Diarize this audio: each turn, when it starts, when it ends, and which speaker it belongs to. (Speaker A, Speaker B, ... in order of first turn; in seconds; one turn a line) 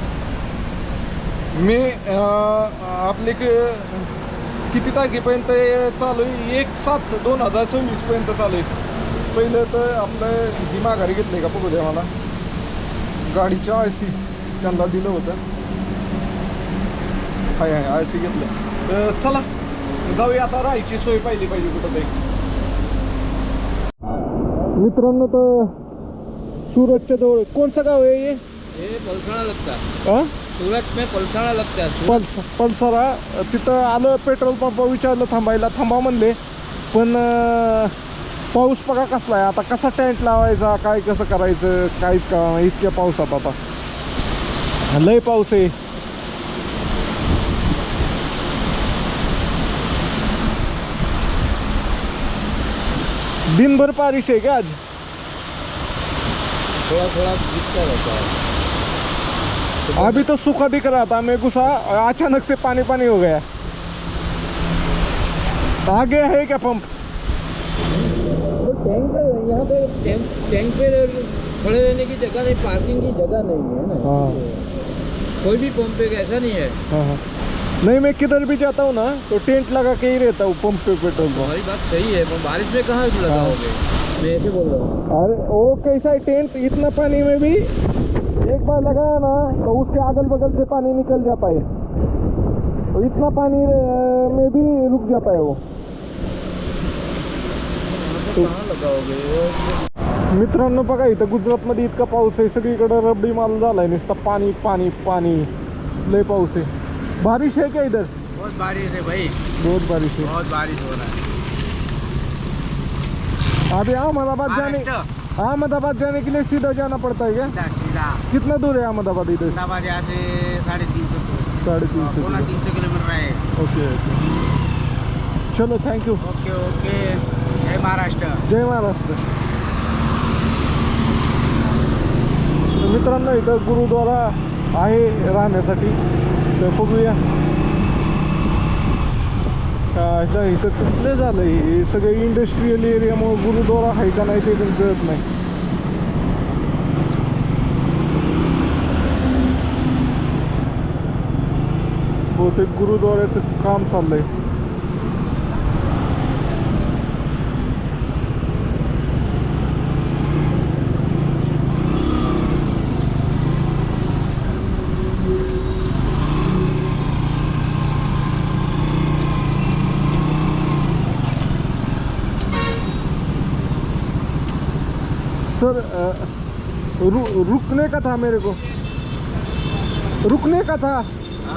Speaker A: 1.5-4.1
Speaker A: 4.7-8.7
Speaker A: 9.3-12.1
Speaker A: 13.2-15.4
Speaker A: 17.6-19.5
Speaker A: 20.1-22.1
Speaker A: 24.8-25.7
Speaker A: 26.7-28.4
Speaker B: 28.7-29.8
Speaker A: 30.0-30.3
Speaker B: 30.6-32.2
Speaker A: 32.0-36.4
Speaker A: 36.9-37.9
Speaker A: 38.5-43.6
Speaker A: 44.9-45.7
Speaker A: 53.5-54.8
Speaker B: 56.9-58.4
Speaker B: 59.9-60.3
Speaker A: 60.0-63.4
Speaker A: 65.8-66.8
Speaker B: 67.9-74.7
Speaker A: 74.0-74.4
Speaker B: 75.4-76.8
Speaker A: 76.9-77.2
Speaker A: 77.8-81.5
Speaker B: 81.1-84.9
Speaker A: 83.3-83.5
Speaker A: 85.1-87.7
Speaker A: 88.4-91.7
Speaker A: 92.9-95.6
Speaker B: 97.8-99.8
Speaker A: 100.3-105.5
Speaker A: 106.0-106.7
Speaker A: 107.2-108.1
Speaker C: 108.3-109.4
Speaker A: 109.6-110.3
Speaker C: 110.2-111.2
Speaker A: 113.7-117.5
Speaker C: 114.5-115.1
Speaker C: 117.4-118.2
Speaker A: 118.3-119.6
Speaker C: 119.5-123.4
Speaker A: 121.6-122.6
Speaker A: 123.6-124.2
Speaker A: 125.5-126.2
Speaker C: 126.2-128.4
Speaker A: 128.4-129.2
Speaker A: 132.8-136.0
Speaker A: 136.6-137.2
Speaker A: 139.9-145.2
Speaker A: 152.3-154.3
Speaker A: 175.5-176.3
Speaker A: 177.0-178.6
Speaker A: 180.2-181.1